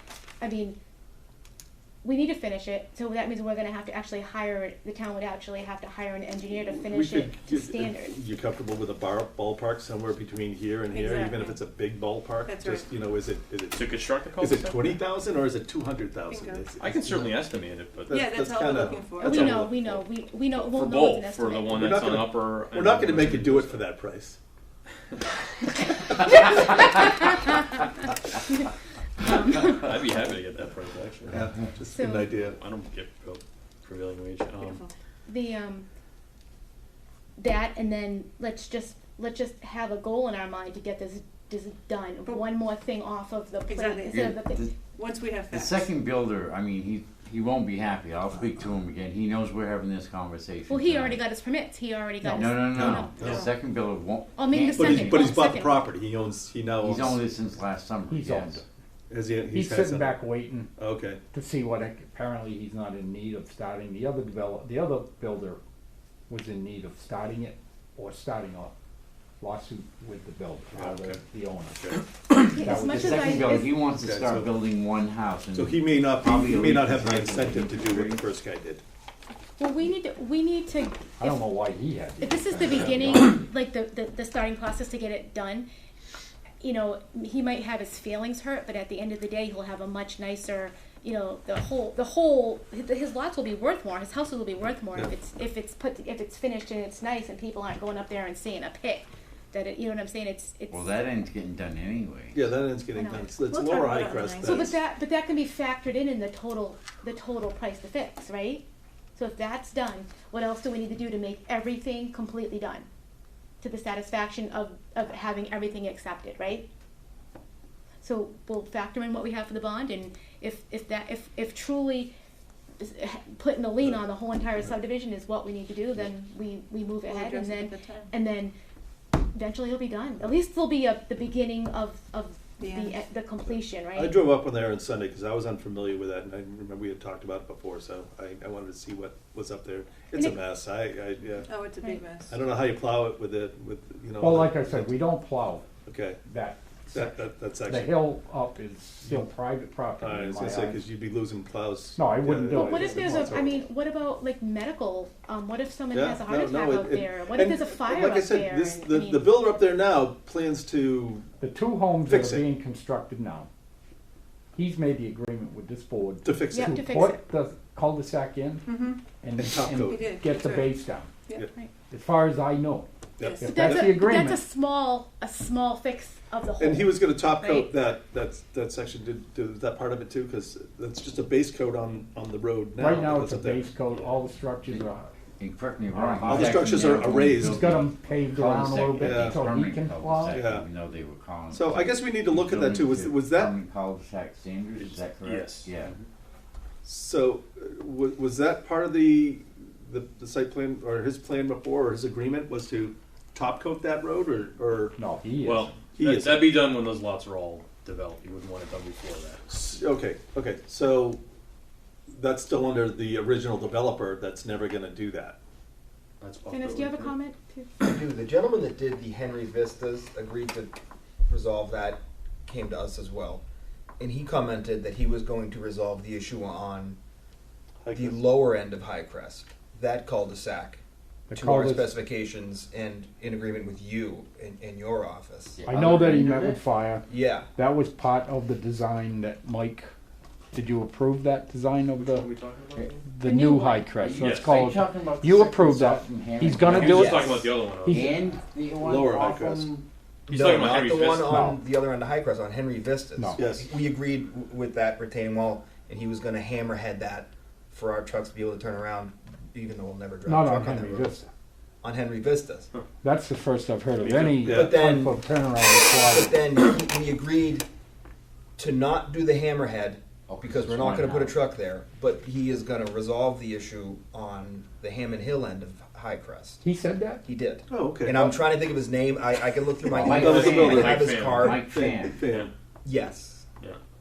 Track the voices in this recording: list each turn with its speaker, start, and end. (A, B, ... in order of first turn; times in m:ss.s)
0:00.4-0:00.8 A
0:02.0-0:08.2 A
0:06.7-0:17.4 B
0:10.9-0:11.5 C
0:11.1-0:11.4 A
0:12.4-0:12.9 C
0:13.7-0:15.0 D
0:16.3-0:16.7 C
0:16.8-0:18.2 D
0:18.1-0:19.4 C
0:18.1-0:20.0 B
0:19.2-0:21.9 A
0:19.4-0:19.6 D
0:20.7-0:23.9 D
0:21.7-0:24.4 B
0:26.1-0:28.7 A
0:29.2-0:30.1 A
0:29.7-0:31.4 D
0:31.3-0:32.6 B
0:31.9-0:32.3 A
0:32.4-0:34.8 D
0:34.6-0:34.9 C
0:35.3-0:35.9 A
0:37.4-0:44.7 A
0:42.2-0:42.5 C
0:43.6-0:45.9 C
0:44.1-0:44.6 E
0:45.5-0:51.2 E
0:50.7-0:53.2 A
0:52.2-0:52.6 F
0:52.4-0:55.3 E
0:52.6-0:53.4 B
0:53.2-0:53.5 C
0:54.4-0:55.9 A
0:54.8-0:57.2 B
0:56.8-0:58.6 E
0:58.1-0:58.6 F
0:59.1-1:01.2 B
0:59.5-1:00.7 F
1:01.3-1:05.6 F
1:06.3-1:08.7 F
1:09.4-1:11.9 F
1:10.7-1:11.2 B
1:12.5-1:13.7 A
1:12.6-1:13.3 F
1:12.9-1:18.2 E
1:14.0-1:14.5 B
1:15.5-1:18.8 B
1:19.6-1:21.5 A
1:21.2-1:23.1 F
1:22.2-1:25.7 A
1:26.6-1:41.0 A
1:40.7-1:42.4 E
1:42.3-1:44.8 B
1:42.9-1:43.3 A
1:43.4-1:44.7 C
1:44.4-1:48.6 A
1:49.2-1:52.9 A
1:53.6-1:56.7 A
1:58.0-2:02.1 A
2:02.8-2:08.5 A
2:07.0-2:08.1 C
2:09.3-2:14.1 A
2:12.6-2:13.0 C
2:13.9-2:21.6 B
2:20.1-2:20.4 A
2:21.5-2:22.3 C
2:22.3-2:25.1 B
2:24.2-2:25.6 F
2:25.8-2:26.2 B
2:26.2-2:30.9 F
2:26.8-2:28.2 B
2:29.0-2:29.3 B
2:30.0-2:33.6 B
2:31.9-2:33.3 F
2:32.5-2:39.3 A
2:35.9-2:41.3 B
2:41.4-2:43.5 F
2:42.0-2:42.5 B
2:44.5-2:51.1 F
2:46.2-2:46.8 B
2:46.5-2:47.2 A
2:48.7-2:49.0 C
2:49.4-2:50.1 B
2:49.8-2:51.5 C
2:51.9-2:52.9 F
2:53.2-2:54.0 B
2:53.2-2:53.7 C
2:53.4-2:54.4 F
2:53.4-2:57.7 A
2:56.6-3:04.2 B
3:02.8-3:05.1 F
3:05.4-3:15.9 E
3:05.9-3:06.4 F
3:06.3-3:07.6 B
3:07.4-3:10.5 F
3:09.0-3:09.4 B
3:10.2-3:10.6 B
3:11.5-3:13.5 B
3:16.8-3:25.0 B
3:25.0-3:25.8 F
3:25.4-3:26.6 D
3:25.9-3:26.6 B
3:26.7-3:29.3 F
3:27.4-3:28.0 D
3:29.5-3:31.2 B
3:32.1-3:35.4 B
3:36.2-3:36.9 F
3:36.4-3:37.7 A
3:37.8-3:40.7 G
3:41.3-3:43.4 G
3:44.0-3:47.0 G
3:47.8-3:48.2 B
3:47.9-3:50.8 G
3:51.3-3:51.9 F
3:51.3-3:55.6 G
3:55.6-3:56.6 E
3:55.6-3:59.9 F
3:57.1-3:57.5 G
4:00.5-4:02.4 F
4:02.2-4:02.9 D
4:03.1-4:08.2 F
4:03.2-4:04.0 A
4:04.0-4:07.0 E
4:04.2-4:04.5 D
4:06.6-4:07.5 G
4:06.8-4:08.0 D
4:07.9-4:09.8 E
4:08.8-4:09.7 B
4:10.3-4:11.4 D
4:10.3-4:21.1 G
4:11.3-4:11.6 F
4:13.2-4:13.5 F
4:13.3-4:13.7 B
4:20.2-4:21.3 F
4:21.8-4:22.7 G
4:23.0-4:26.3 F
4:24.0-4:24.4 D
4:24.2-4:24.8 B
4:24.5-4:25.2 G
4:25.9-4:27.7 G
4:28.6-4:36.6 G
4:30.3-4:31.3 E
4:36.6-4:37.2 F
4:37.2-4:41.6 G
4:37.7-4:38.4 B
4:40.0-4:42.2 E
4:40.1-4:41.2 B
4:40.2-4:41.4 D
4:41.7-4:42.5 B
4:42.8-4:43.4 G